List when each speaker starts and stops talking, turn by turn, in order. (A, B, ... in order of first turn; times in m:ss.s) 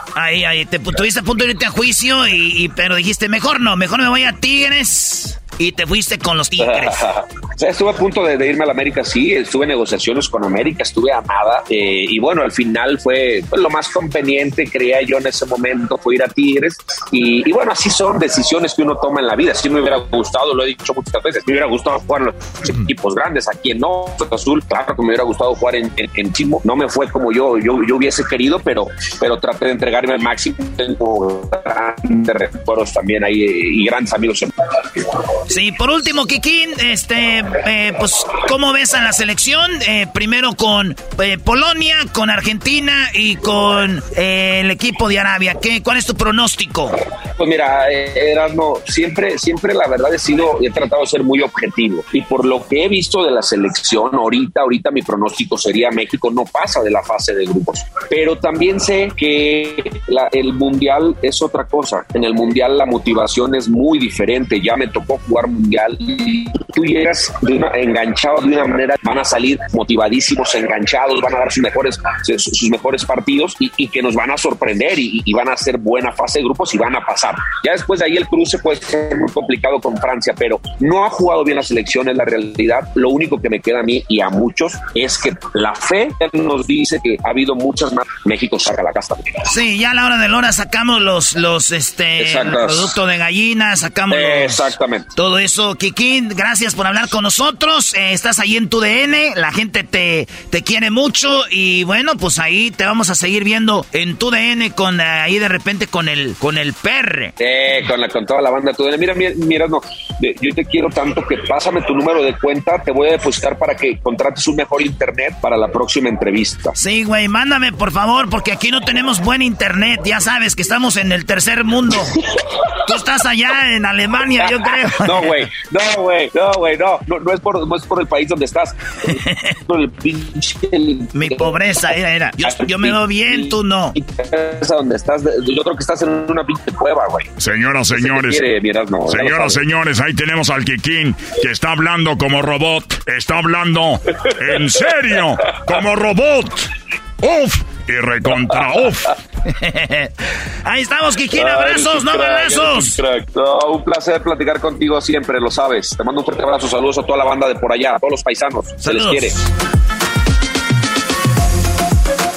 0:00.2-0:07.0 A
0:06.6-0:34.5 B
0:35.5-0:46.9 A
0:47.4-1:29.5 B
1:29.5-1:34.6 A
1:32.2-1:33.0 B
1:34.1-1:35.1 B
1:35.2-1:47.3 A
1:47.4-1:56.8 B
1:56.8-2:02.1 A
2:02.8-2:05.3 A
2:04.4-2:11.5 B
2:11.1-2:14.0 A
2:12.4-2:17.3 B
2:17.4-2:18.5 C
2:17.9-2:19.6 B
2:19.1-2:26.6 C
2:24.2-2:25.8 B
2:27.2-2:29.1 C
2:28.3-2:29.0 B
2:29.5-2:30.1 A
2:30.6-2:32.9 A
2:31.3-2:39.4 B
2:38.8-2:39.3 A